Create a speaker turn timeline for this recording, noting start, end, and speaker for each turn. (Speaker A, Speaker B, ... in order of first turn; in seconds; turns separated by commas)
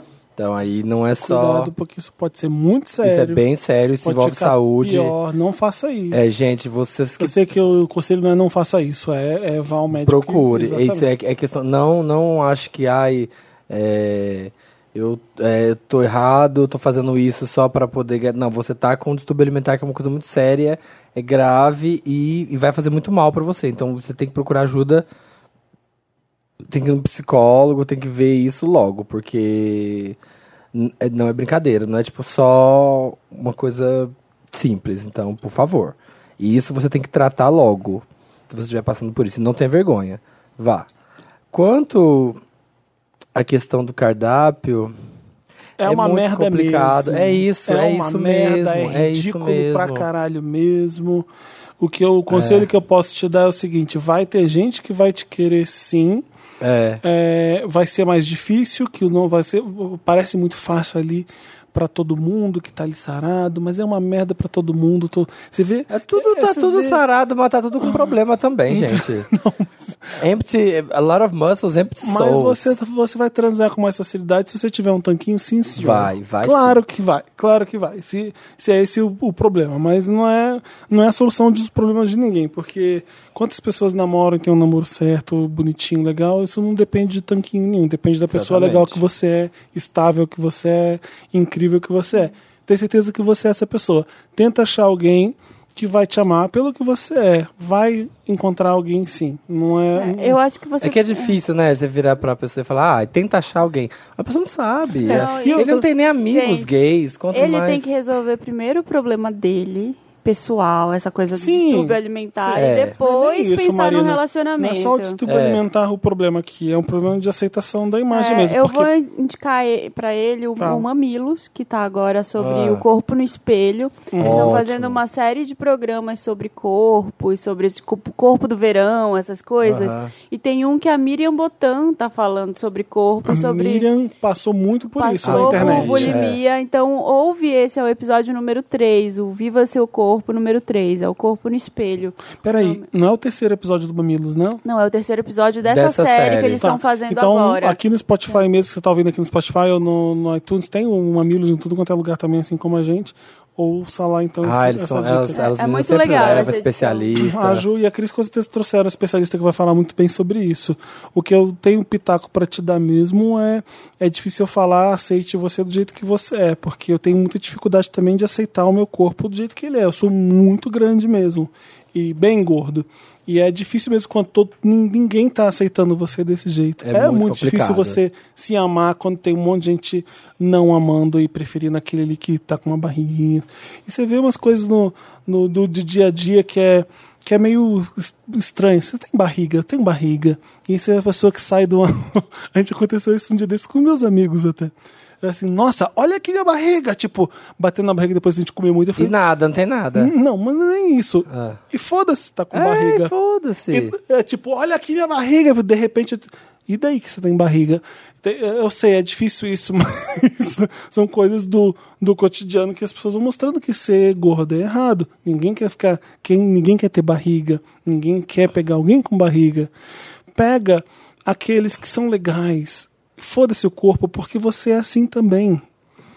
Speaker A: 0.4-1.7, Speaker B: 1.2-3.4, Speaker A: 3.0-5.1, Speaker B: 4.0-6.3, Speaker A: 6.1-7.4, Speaker B: 7.2-11.1, Speaker A: 10.0-25.0, Speaker A: 26.7-30.1, Speaker A: 30.7-40.9, Speaker A: 41.5-42.4, Speaker A: 43.3-44.9, Speaker B: 45.8-51.3, Speaker A: 45.8-50.1, Speaker B: 51.8-56.2, Speaker A: 52.3-52.7, Speaker A: 56.6-57.0, Speaker B: 57.0-67.0, Speaker A: 65.9-69.3, Speaker B: 67.8-68.2, Speaker B: 68.7-70.2, Speaker A: 70.2-72.7, Speaker B: 72.0-100.4, Speaker A: 75.8-76.8, Speaker A: 88.3-89.0, Speaker C: 99.9-101.4, Speaker A: 100.8-107.9, Speaker B: 105.0-105.8, Speaker C: 105.0-106.8, Speaker C: 107.3-115.2, Speaker B: 111.3-118.9, Speaker A: 112.5-113.0, Speaker A: 115.2-115.6, Speaker C: 118.1-133.9, Speaker B: 120.6-120.9, Speaker A: 122.4-122.8, Speaker B: 124.1-124.7, Speaker A: 124.2-125.0, Speaker A: 129.6-130.1, Speaker B: 133.2-136.2, Speaker C: 135.0-142.8, Speaker A: 135.2-136.4, Speaker B: 142.4-144.6, Speaker C: 144.6-147.8, Speaker A: 145.6-146.7, Speaker B: 146.6-155.4, Speaker A: 154.4-157.6, Speaker C: 155.3-157.1, Speaker B: 156.2-156.5, Speaker B: 157.1-199.1, Speaker A: 176.8-178.0, Speaker A: 199.0-200.1, Speaker B: 199.9-203.1, Speaker A: 201.3-201.6, Speaker A: 202.5-203.9, Speaker B: 203.7-219.7, Speaker B: 220.3-225.6